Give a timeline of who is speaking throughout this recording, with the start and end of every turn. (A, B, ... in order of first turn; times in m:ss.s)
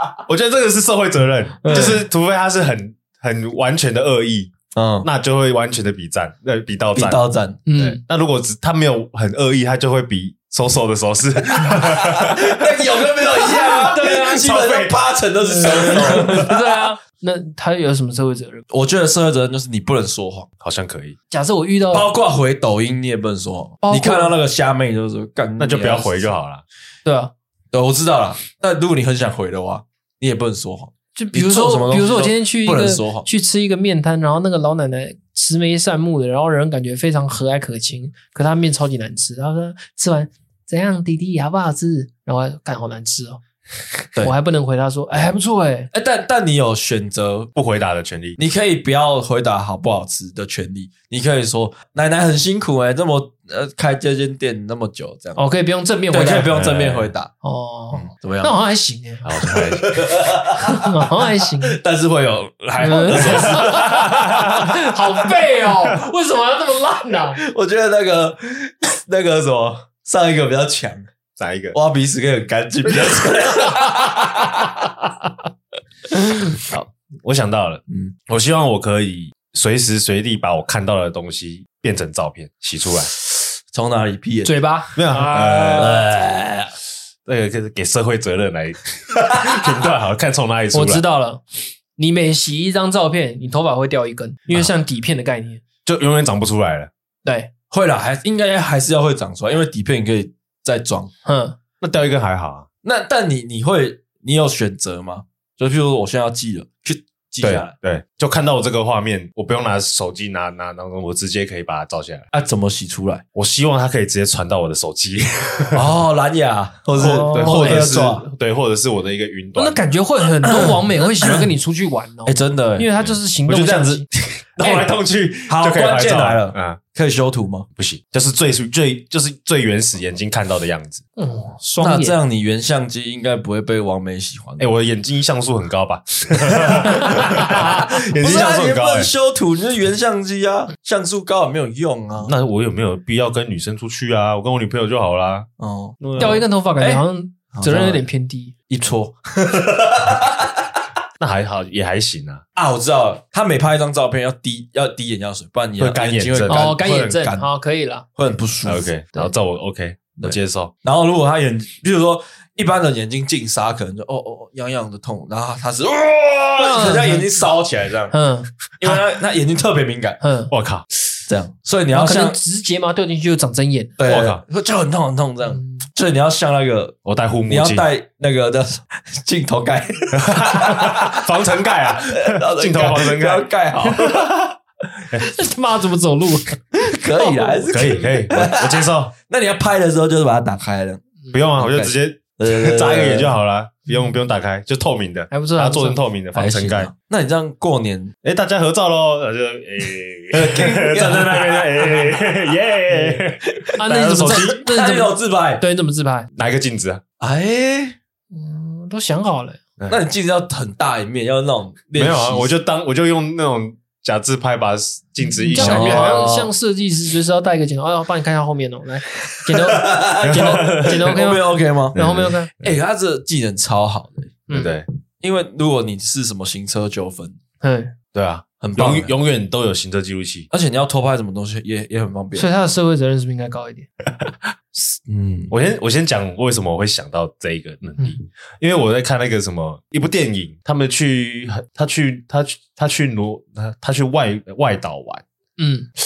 0:00.3-0:07.2 A
0:01.6-0:02.0 B
0:04.8-0:05.1 C
0:07.0-0:07.6 C
0:07.7-0:08.0 B
0:07.8-0:12.9 A
0:11.7-0:16.6 C
0:13.6-0:14.5 B
0:13.9-0:15.0 A
0:15.8-0:18.6 B
0:16.0-0:16.5 A
0:18.7-0:20.5 C
0:20.6-0:21.2 A
0:21.3-0:22.1 B
0:21.9-0:26.3 C
0:23.8-0:24.4 B
0:25.6-0:26.6 A
0:27.0-0:27.3 B
0:27.7-0:33.3 C
0:31.2-0:43.4 B
0:44.2-0:45.9 B
0:45.9-0:47.5 C
0:47.6-0:48.4 A
0:48.4-0:55.4 C
0:55.4-0:56.6 B
0:56.1-0:57.3 C
0:56.5-0:57.1 A
0:57.4-0:59.6 B
0:58.0-0:58.5 C
0:59.2-1:00.0 A
0:59.5-1:01.1 C
1:00.6-1:01.8 B
1:01.6-1:04.6 C
1:02.8-1:07.4 B
1:03.3-1:04.7 A
1:07.3-1:11.1 C
1:11.4-1:11.8 A
1:11.7-1:14.7 C
1:16.7-1:23.1 A
1:17.9-1:18.2 C
1:23.7-1:24.6 C
1:24.4-1:26.0 B
1:25.0-1:26.0 A
1:25.7-1:26.7 C
1:27.3-1:31.0 A
1:30.7-1:31.4 B
1:32.0-1:35.6 B
1:35.9-1:36.9 A
1:37.2-1:37.5 B
1:37.7-1:41.1 C
1:41.3-1:41.6 B
1:41.8-1:42.7 A
1:42.8-1:47.7 C
1:47.4-1:52.2 A
1:52.3-1:53.2 C
1:53.4-1:55.9 A
1:55.7-1:58.3 C
1:57.0-1:57.9 B
1:57.0-1:59.8 A
1:59.6-2:04.1 B
2:00.4-2:01.5 C
2:02.3-2:02.9 C
2:03.0-2:06.8 A
2:05.5-2:07.7 C
2:07.8-2:11.0 A
2:11.2-2:12.2 B
2:11.8-2:14.7 C
2:14.6-2:19.1 A
2:16.6-2:22.3 C
2:16.9-2:17.7 B
2:22.2-2:25.5 A
2:25.6-2:28.0 C
2:26.0-2:26.4 A
2:26.2-2:28.6 B
2:28.7-2:30.6 C
2:31.2-2:32.4 A
2:32.6-2:37.5 C
2:35.8-2:36.7 A
2:36.5-2:38.1 B
2:38.2-2:38.9 C
2:38.6-2:40.7 A
2:40.2-2:48.2 C
2:46.6-2:47.4 B
2:48.1-2:49.0 B
2:48.8-2:50.2 C
2:50.2-2:50.5 B
2:50.5-2:50.9 A
2:51.3-2:52.4 C
2:51.9-2:53.9 B
2:54.0-2:57.0 C
2:54.1-2:54.4 A
2:57.0-2:57.9 A
2:57.5-3:01.3 C
3:00.1-3:04.4 A
3:02.1-3:04.5 C
3:05.2-3:08.0 B
3:06.8-3:11.0 C
3:07.7-3:09.1 A
3:11.3-3:16.9 A
3:11.6-3:13.4 C
3:15.3-3:16.0 B
3:16.4-3:18.1 C
3:18.2-3:24.6 A
3:20.3-3:22.3 C
3:22.9-3:23.2 B
3:23.5-3:25.6 C
3:23.8-3:26.3 B
3:26.4-3:27.0 A
3:27.2-3:28.0 C
3:28.3-3:29.6 B
3:29.9-3:32.5 C
3:32.0-3:36.4 A
3:35.4-3:42.5 B
3:35.6-3:36.5 C
3:39.3-3:42.1 C
3:40.2-3:41.2 A
3:42.0-3:42.7 A
3:42.6-3:44.4 C
3:44.5-3:44.9 A
3:45.2-3:47.4 C
3:47.6-3:47.9 B
3:48.1-3:50.5 A
3:48.6-3:49.1 C
3:50.5-3:52.5 C
3:52.4-3:53.9 B
3:55.1-3:55.5 C
3:55.5-4:05.2 A
4:05.6-4:05.9 B